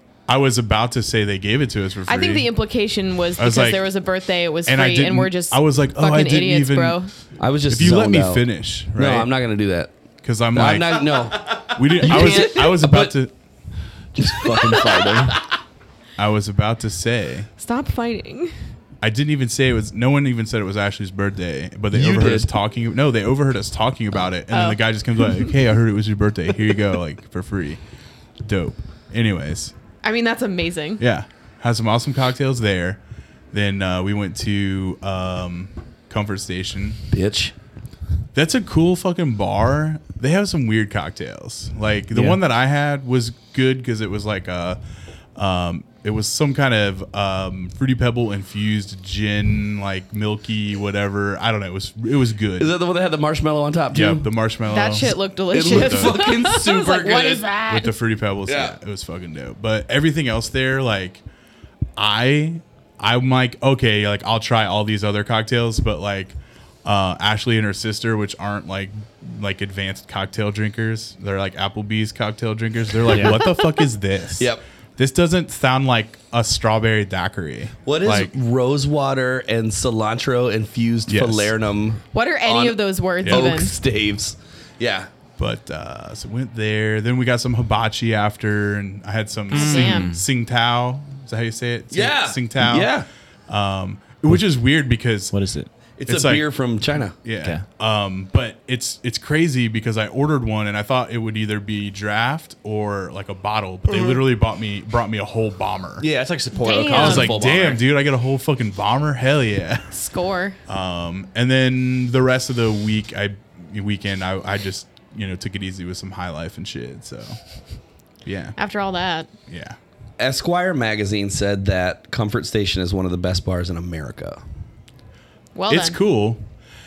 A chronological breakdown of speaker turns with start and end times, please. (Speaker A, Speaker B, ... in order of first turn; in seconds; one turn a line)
Speaker A: 0.3-2.5
Speaker B: 2.1-7.1
Speaker A: 3.4-3.9
Speaker A: 4.7-7.0
Speaker C: 7.4-9.9
Speaker A: 7.7-9.3
Speaker A: 10.2-11.2
Speaker C: 10.5-13.2
Speaker A: 11.7-13.3
Speaker D: 14.2-15.4
Speaker C: 14.2-15.4
Speaker A: 16.2-17.5
Speaker B: 17.6-18.5
Speaker A: 19.0-27.8
Speaker C: 21.9-22.5
Speaker B: 24.5-25.4
Speaker A: 28.4-29.7
Speaker B: 30.0-31.0
Speaker A: 31.0-33.0
Speaker A: 33.5-37.0
Speaker C: 37.1-37.5
Speaker A: 38.3-44.8
Speaker D: 42.1-42.4
Speaker A: 45.3-52.7
Speaker C: 52.6-54.3
Speaker A: 53.9-56.2
Speaker B: 54.7-57.9
Speaker C: 55.5-57.6
Speaker A: 57.7-61.2
Speaker C: 58.5-58.8
Speaker A: 62.0-78.3
Speaker D: 73.1-73.5
Speaker C: 77.8-85.1
Speaker A: 81.1-81.5
Speaker B: 82.1-83.7
Speaker A: 83.2-83.5
Speaker A: 85.4-95.3
Speaker B: 89.5-90.1
Speaker D: 89.5-90.2
Speaker C: 91.9-93.1
Speaker D: 95.3-95.7
Speaker C: 96.0-97.2
Speaker A: 96.1-96.5
Speaker A: 97.2-106.1
Speaker D: 106.0-107.3
Speaker B: 106.5-107.3
Speaker C: 106.8-107.9
Speaker A: 106.9-109.9
Speaker B: 109.9-110.6
Speaker A: 110.7-117.4
Speaker A: 118.2-118.5
Speaker B: 118.5-119.3
Speaker A: 119.5-119.8
Speaker C: 120.2-124.4
Speaker B: 125.5-126.0
Speaker A: 125.7-126.4